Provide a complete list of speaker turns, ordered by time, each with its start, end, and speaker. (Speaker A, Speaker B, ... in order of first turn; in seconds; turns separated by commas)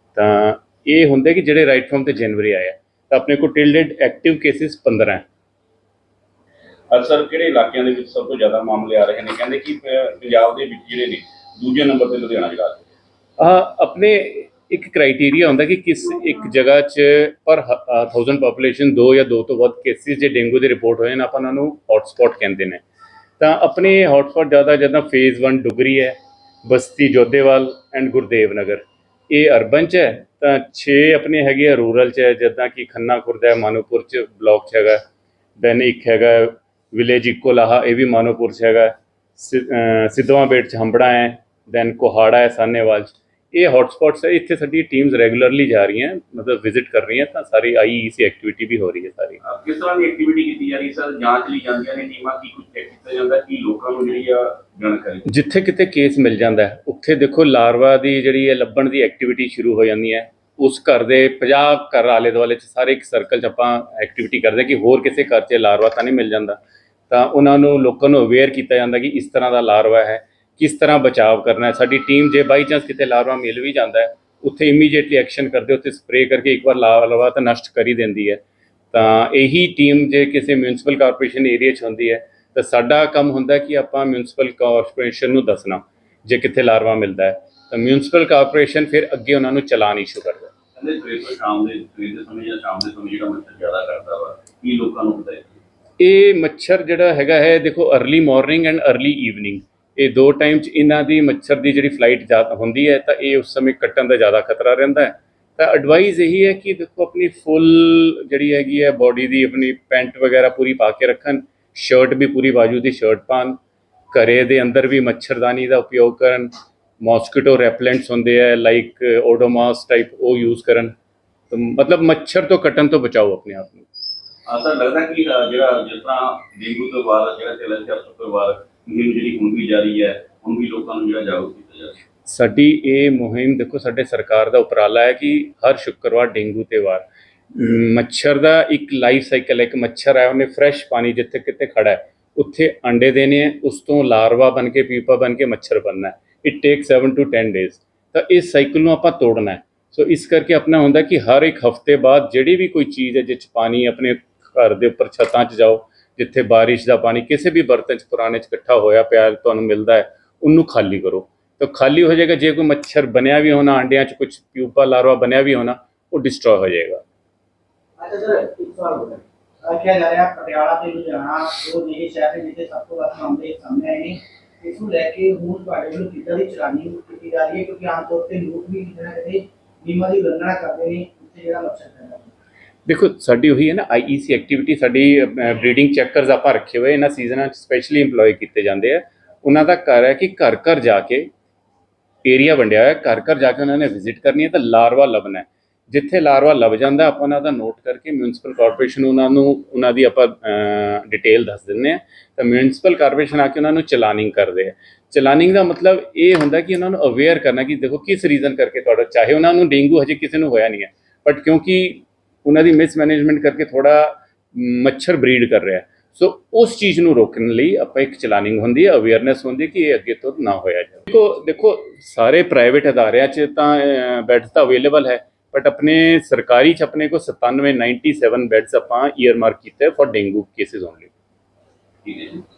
Speaker A: 0.1-5.2, Speaker B: 6.9-12.9, Speaker A: 13.4-22.8, Speaker A: 23.4-35.0, Speaker A: 35.6-49.4, Speaker B: 49.4-55.2, Speaker A: 55.3-66.6, Speaker A: 67.1-78.4, Speaker A: 78.9-90.5, Speaker B: 90.8-95.6, Speaker A: 96.0-113.6, Speaker A: 114.1-120.9, Speaker A: 121.5-123.9, Speaker B: 124.5-131.9, Speaker A: 132.2-167.0, Speaker C: 168.0-182.3, Speaker A: 182.8-191.3, Speaker A: 192.2-231.1, Speaker B: 232.0-232.4